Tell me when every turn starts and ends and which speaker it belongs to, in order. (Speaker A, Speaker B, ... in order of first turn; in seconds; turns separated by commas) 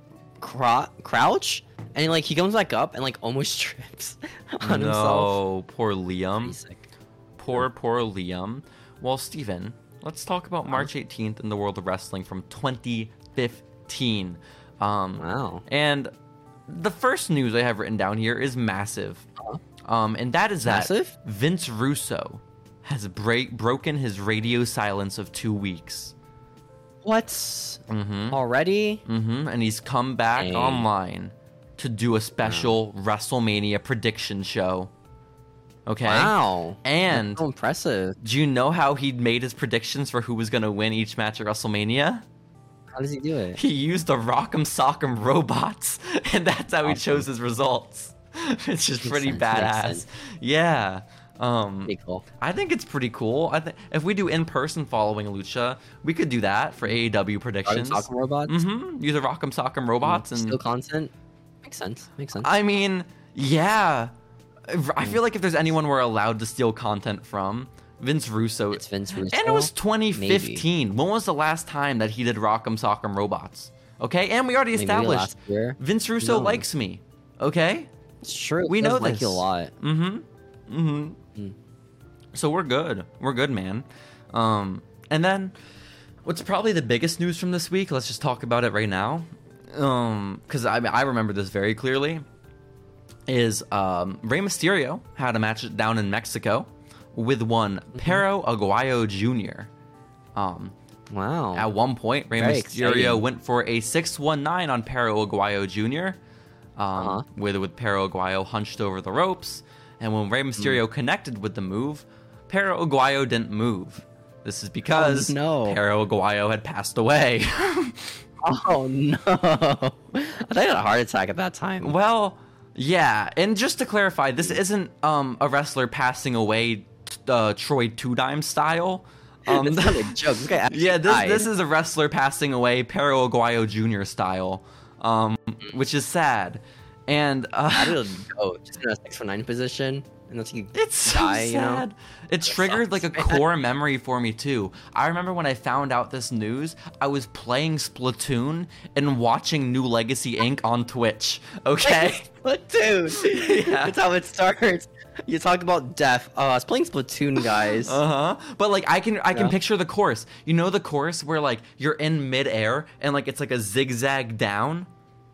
Speaker A: 0.4-5.4, Speaker B: 4.6-6.6, Speaker A: 6.4-6.9, Speaker B: 7.4-16.1, Speaker A: 15.2-15.7, Speaker B: 16.7-19.3, Speaker B: 19.9-26.1, Speaker A: 20.6-21.1, Speaker A: 27.0-29.0, Speaker B: 27.9-28.4, Speaker B: 29.1-34.9, Speaker A: 30.4-30.9, Speaker A: 32.4-32.7, Speaker B: 35.9-37.4, Speaker A: 36.0-38.2, Speaker B: 38.2-42.2, Speaker A: 42.9-43.6, Speaker B: 43.6-60.6, Speaker A: 46.8-47.3, Speaker A: 49.0-50.0, Speaker A: 51.9-52.2, Speaker A: 57.7-58.6, Speaker A: 60.0-61.1, Speaker A: 61.6-62.5, Speaker B: 62.4-64.1, Speaker B: 64.7-77.9, Speaker A: 68.7-70.7, Speaker A: 74.8-76.7, Speaker A: 78.2-79.7, Speaker B: 78.7-81.2, Speaker B: 82.3-85.5, Speaker B: 86.2-92.2, Speaker B: 93.3-99.7, Speaker A: 98.0-98.2, Speaker B: 100.3-100.8, Speaker A: 101.1-101.7, Speaker B: 101.5-106.2, Speaker A: 102.4-103.2, Speaker B: 106.8-118.2, Speaker A: 107.0-107.2, Speaker A: 114.9-115.8, Speaker A: 118.4-122.0, Speaker B: 121.8-138.0, Speaker A: 129.5-131.5, Speaker A: 137.7-141.8, Speaker B: 140.7-152.3, Speaker A: 142.5-143.4, Speaker A: 151.8-158.0, Speaker B: 153.1-153.9, Speaker B: 157.4-164.9